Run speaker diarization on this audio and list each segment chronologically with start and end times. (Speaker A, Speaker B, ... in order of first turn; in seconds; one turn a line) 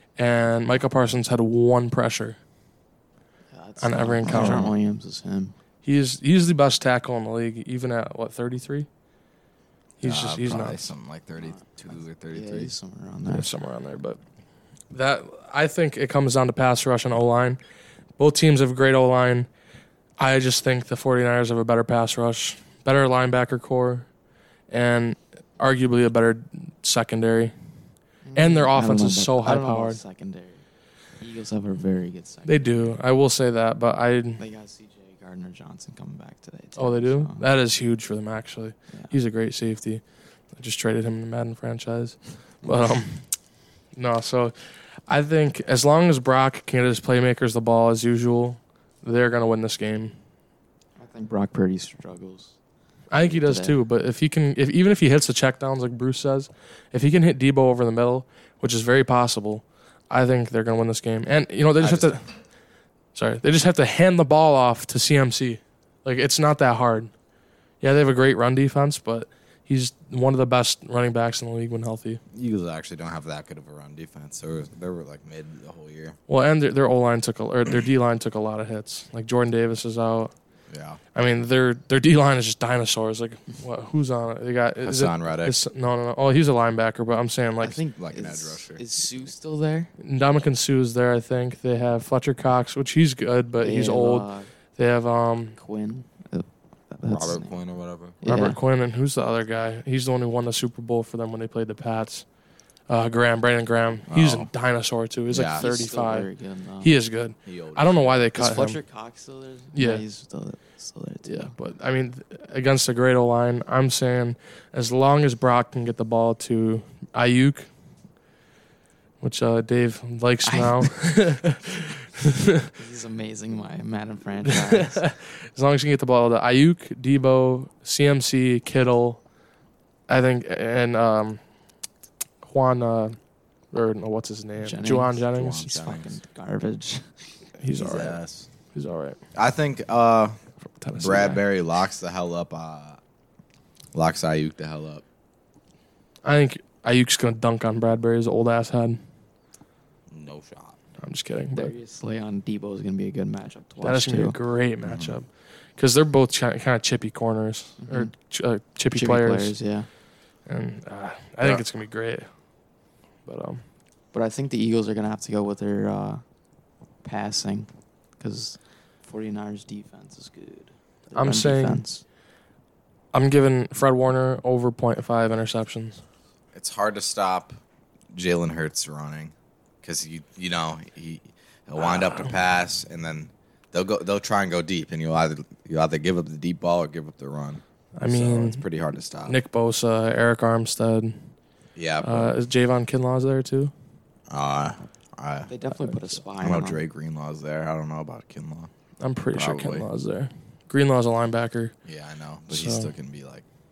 Speaker A: 0.2-2.4
Speaker B: 3.5-5.5
Speaker A: 3.8-4.8
Speaker A: 5.8-8.9
Speaker A: 10.0-10.9
Speaker C: 10.0-12.7
Speaker B: 11.4-13.5
Speaker A: 13.3-14.2
Speaker A: 14.9-17.6
Speaker A: 18.2-19.5
Speaker A: 20.2-24.1
Speaker A: 24.7-27.5
Speaker B: 28.2-30.6
Speaker A: 28.4-30.0
Speaker B: 31.2-32.9
Speaker A: 32.5-34.4
Speaker B: 34.4-37.4
Speaker A: 36.8-40.0
Speaker A: 40.5-43.2
Speaker A: 44.0-44.5
Speaker A: 45.1-50.1
Speaker B: 51.0-52.6
Speaker A: 53.1-62.3
Speaker B: 53.2-53.8
Speaker C: 61.8-62.1
Speaker A: 63.1-67.1
Speaker A: 67.8-72.2
Speaker C: 72.3-76.2
Speaker A: 76.3-80.3
Speaker C: 80.7-81.0
Speaker A: 81.1-87.8
Speaker C: 84.8-85.6
Speaker B: 87.6-89.9
Speaker C: 88.0-88.8
Speaker A: 90.0-95.6
Speaker B: 93.6-94.5
Speaker B: 95.6-97.6
Speaker C: 97.1-98.2
Speaker B: 98.2-98.6
Speaker A: 98.2-102.3
Speaker A: 102.9-106.3
Speaker C: 104.1-104.5
Speaker C: 105.3-105.7
Speaker B: 105.6-107.0
Speaker A: 106.8-108.8
Speaker C: 107.5-108.3
Speaker B: 108.3-111.5
Speaker A: 109.8-110.0
Speaker A: 111.3-117.7
Speaker A: 119.2-122.7
Speaker B: 120.5-120.9
Speaker B: 122.7-125.0
Speaker A: 124.5-129.2
Speaker A: 130.1-131.4
Speaker A: 132.4-133.2
Speaker A: 133.7-135.7
Speaker B: 134.6-137.1
Speaker C: 135.3-136.1
Speaker A: 137.6-138.2
Speaker C: 137.8-138.5
Speaker A: 138.7-139.2
Speaker C: 139.3-140.4
Speaker A: 140.8-141.4
Speaker C: 141.0-143.0
Speaker C: 143.9-145.0
Speaker A: 146.2-149.0
Speaker C: 150.1-150.8
Speaker A: 151.0-151.7
Speaker B: 151.5-154.4
Speaker A: 153.8-159.6
Speaker C: 154.8-155.2
Speaker B: 157.8-158.1
Speaker B: 158.9-159.9
Speaker A: 160.5-162.3
Speaker A: 163.3-163.6
Speaker B: 164.1-166.2
Speaker B: 167.0-172.0
Speaker A: 171.2-171.8
Speaker A: 173.1-176.0
Speaker C: 176.5-177.6
Speaker C: 178.1-189.4
Speaker A: 188.0-188.6
Speaker A: 189.3-191.3
Speaker C: 191.8-192.3
Speaker A: 192.0-193.7
Speaker C: 194.3-195.5
Speaker B: 195.5-196.8
Speaker C: 196.4-198.7
Speaker A: 199.0-201.7
Speaker C: 199.3-199.9
Speaker C: 201.8-203.4
Speaker A: 202.5-202.9